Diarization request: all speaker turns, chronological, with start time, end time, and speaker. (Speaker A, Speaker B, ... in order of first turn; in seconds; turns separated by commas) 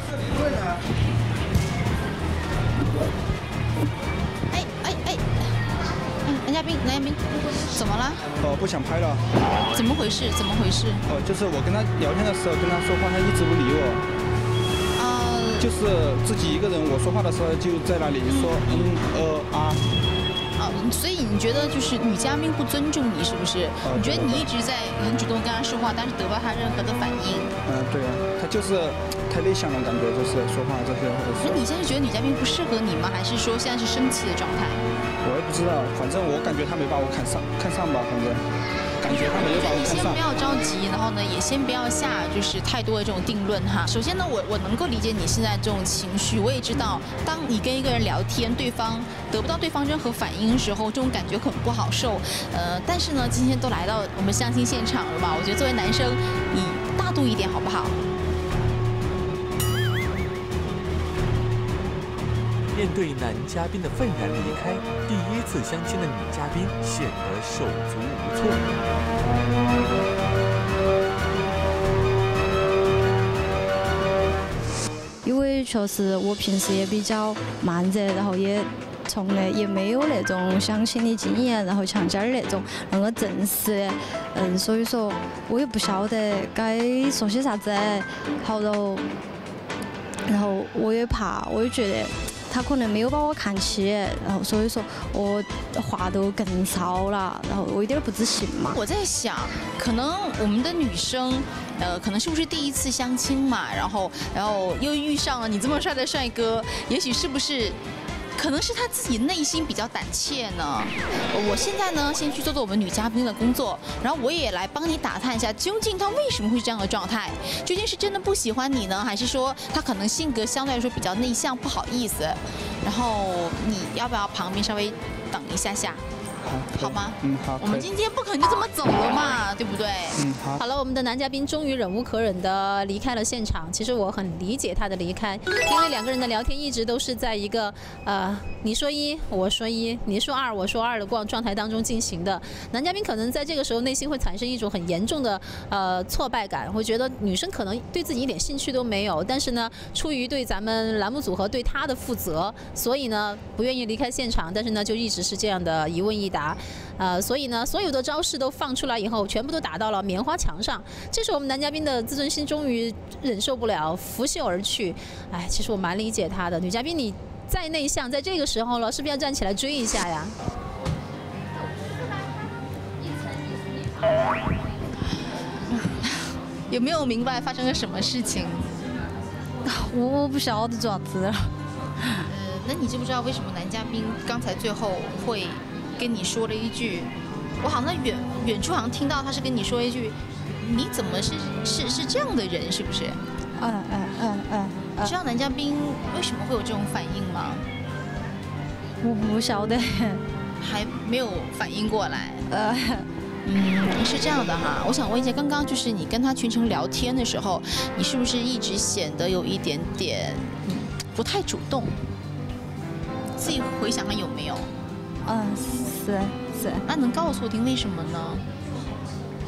Speaker A: 4.5-5.6, Speaker A: 6.2-8.2, Speaker B: 8.4-9.2, Speaker A: 9.7-11.0, Speaker B: 11.1-14.0, Speaker A: 15.0-15.7, Speaker B: 15.6-19.8, Speaker A: 18.2-18.9, Speaker A: 20.6-27.5, Speaker B: 23.8-24.4, Speaker B: 27.6-31.6, Speaker A: 31.4-34.8, Speaker B: 35.2-38.4, Speaker B: 39.0-40.2, Speaker A: 39.0-58.0, Speaker C: 62.7-68.6, Speaker D: 75.2-89.0, Speaker D: 90.3-98.8, Speaker A: 98.7-107.8, Speaker A: 108.4-126.0, Speaker B: 126.4-127.9, Speaker A: 126.8-130.2, Speaker B: 130.2-130.6, Speaker E: 130.6-170.3, Speaker A: 175.9-178.7, Speaker D: 179.7-182.2, Speaker A: 182.3-193.2, Speaker D: 193.6-195.2, Speaker A: 195.0-197.7, Speaker D: 199.0-200.2, Speaker A: 200.6-202.4, Speaker D: 202.5-203.1, Speaker A: 203.4-211.9, Speaker A: 213.4-214.7, Speaker D: 215.2-216.8, Speaker A: 216.9-218.4